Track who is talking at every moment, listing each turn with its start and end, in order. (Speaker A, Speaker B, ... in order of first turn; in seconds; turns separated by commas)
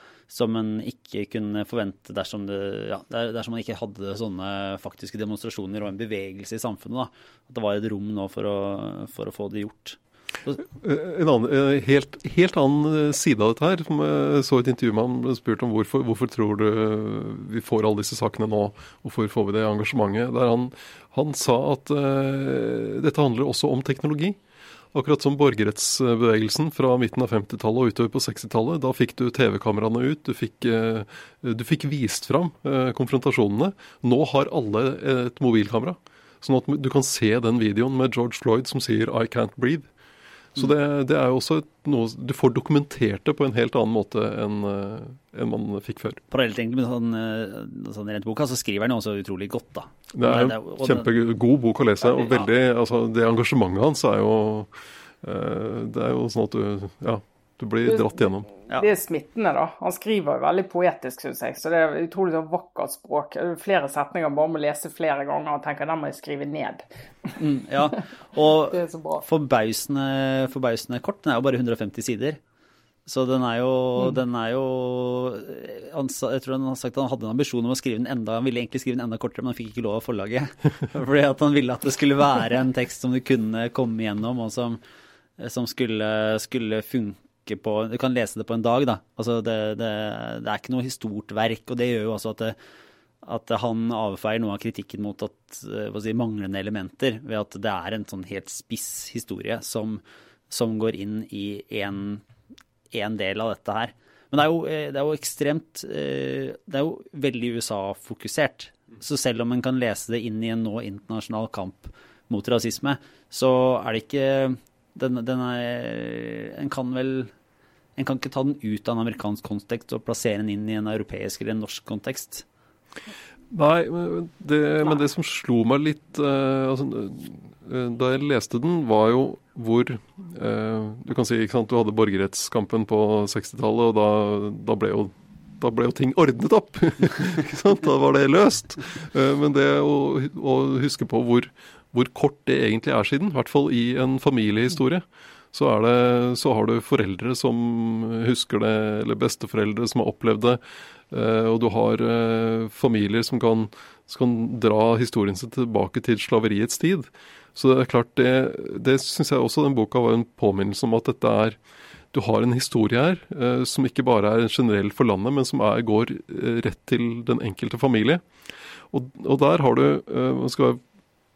Speaker A: 0.3-10.6, Speaker B: 10.8-24.4, Speaker B: 24.9-39.9, Speaker B: 40.5-46.2, Speaker A: 46.3-51.1, Speaker B: 50.1-58.5, Speaker A: 52.0-52.4, Speaker C: 57.9-67.4, Speaker A: 67.3-72.4, Speaker C: 68.7-69.2, Speaker A: 73.0-84.8, Speaker A: 85.4-92.5, Speaker A: 93.2-102.2, Speaker A: 102.9-117.3, Speaker A: 118.0-122.4, Speaker B: 123.5-150.6, Speaker B: 151.1-161.6, Speaker B: 162.1-168.2, Speaker B: 168.9-170.8